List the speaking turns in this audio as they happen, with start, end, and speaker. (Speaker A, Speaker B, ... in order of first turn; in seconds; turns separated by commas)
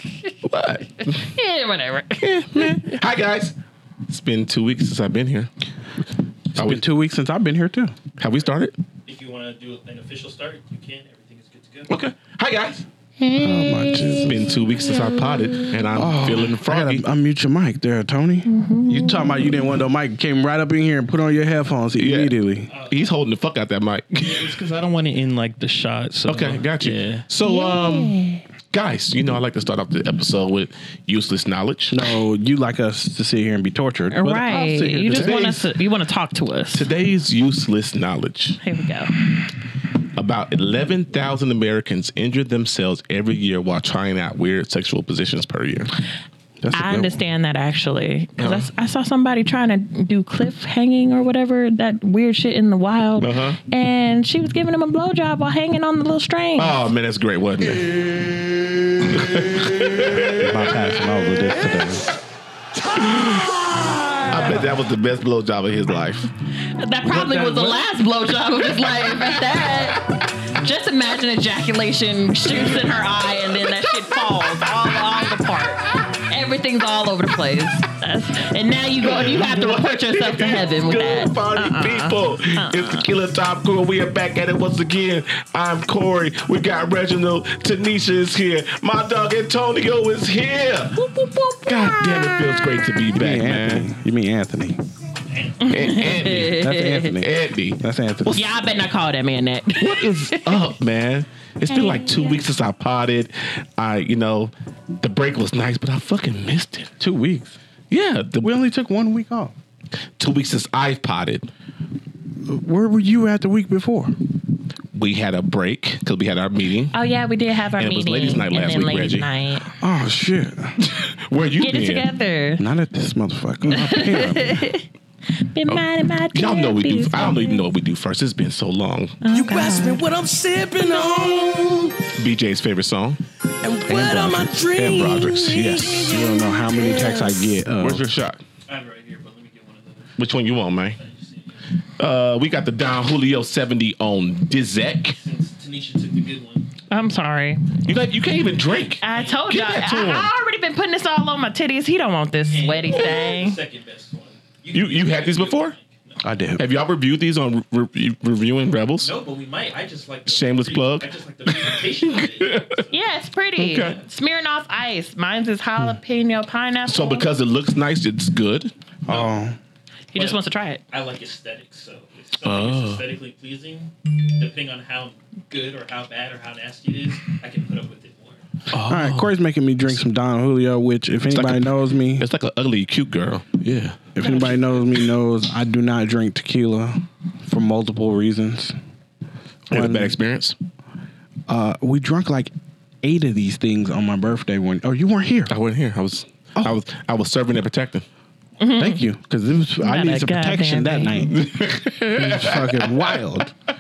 Speaker A: 0.4-1.3, Speaker B: 1.1-2.8, Speaker A: 2.2-3.5, Speaker A: 4.1-5.5, Speaker A: 6.5-6.8, Speaker C: 6.5-8.0, Speaker A: 8.2-8.8, Speaker D: 9.1-11.9, Speaker A: 11.9-12.8, Speaker C: 13.4-14.6, Speaker A: 14.2-17.1, Speaker C: 15.9-22.7, Speaker B: 18.5-19.5, Speaker A: 22.0-22.4, Speaker D: 22.7-23.1, Speaker A: 22.9-24.6, Speaker D: 24.2-27.2, Speaker A: 26.2-28.2, Speaker B: 27.4-28.4, Speaker A: 28.7-32.0, Speaker C: 31.9-35.6, Speaker B: 34.1-36.9, Speaker A: 35.1-35.6, Speaker A: 36.7-38.6, Speaker B: 38.6-39.1, Speaker A: 40.2-45.9, Speaker C: 46.6-47.2, Speaker B: 46.7-56.8, Speaker A: 48.4-48.7, Speaker A: 53.2-53.6, Speaker A: 56.6-58.0, Speaker A: 59.1-61.0, Speaker C: 60.4-62.1, Speaker A: 63.1-63.5, Speaker B: 63.6-64.6, Speaker A: 64.3-66.3, Speaker B: 66.7-83.1, Speaker C: 67.0-67.8, Speaker A: 79.0-91.0, Speaker B: 91.0-92.7, Speaker A: 91.7-93.9, Speaker C: 93.1-94.8, Speaker D: 95.3-96.1, Speaker B: 95.6-97.2, Speaker A: 95.7-98.4, Speaker C: 96.4-98.4, Speaker B: 98.3-100.7, Speaker A: 99.8-107.0, Speaker B: 101.7-102.4, Speaker C: 107.0-107.6, Speaker A: 107.9-108.5, Speaker C: 108.4-109.5, Speaker A: 110.2-111.5, Speaker C: 112.4-114.2, Speaker A: 114.9-117.0, Speaker B: 116.9-119.8, Speaker A: 117.8-119.3, Speaker C: 119.8-120.8, Speaker A: 120.8-122.0, Speaker B: 121.6-122.6, Speaker C: 122.6-124.7, Speaker B: 123.7-127.6, Speaker A: 125.7-129.2, Speaker B: 129.2-130.0, Speaker E: 129.3-132.2, Speaker A: 132.2-133.2, Speaker E: 133.6-137.6, Speaker C: 133.8-135.3, Speaker A: 134.8-136.1, Speaker C: 135.9-138.1, Speaker A: 137.8-138.4, Speaker D: 138.7-140.2, Speaker A: 140.2-141.0, Speaker D: 141.0-141.7, Speaker A: 142.0-145.2, Speaker D: 145.2-146.7, Speaker B: 146.9-147.8, Speaker A: 147.8-150.3, Speaker B: 149.0-153.6, Speaker D: 149.1-149.4, Speaker D: 152.5-156.6, Speaker A: 154.7-155.7, Speaker C: 156.2-156.6, Speaker A: 156.6-159.1, Speaker D: 159.0-163.0, Speaker A: 160.3-162.7, Speaker B: 162.9-167.3, Speaker A: 163.6-164.0, Speaker A: 166.9-168.7, Speaker C: 169.1-169.6, Speaker D: 169.1-169.3, Speaker B: 170.1-170.8, Speaker D: 170.1-170.4, Speaker D: 170.9-178.4, Speaker A: 172.4-173.0, Speaker A: 178.7-179.3, Speaker C: 178.8-182.2, Speaker A: 181.3-184.0, Speaker C: 184.1-188.7, Speaker B: 184.2-184.6, Speaker A: 189.7-190.6, Speaker C: 189.7-190.1, Speaker C: 191.5-192.5, Speaker C: 193.0-195.5, Speaker A: 195.5-198.0, Speaker B: 198.6-199.0, Speaker C: 198.8-201.5, Speaker B: 199.8-201.2, Speaker A: 201.3-203.2, Speaker C: 202.1-203.5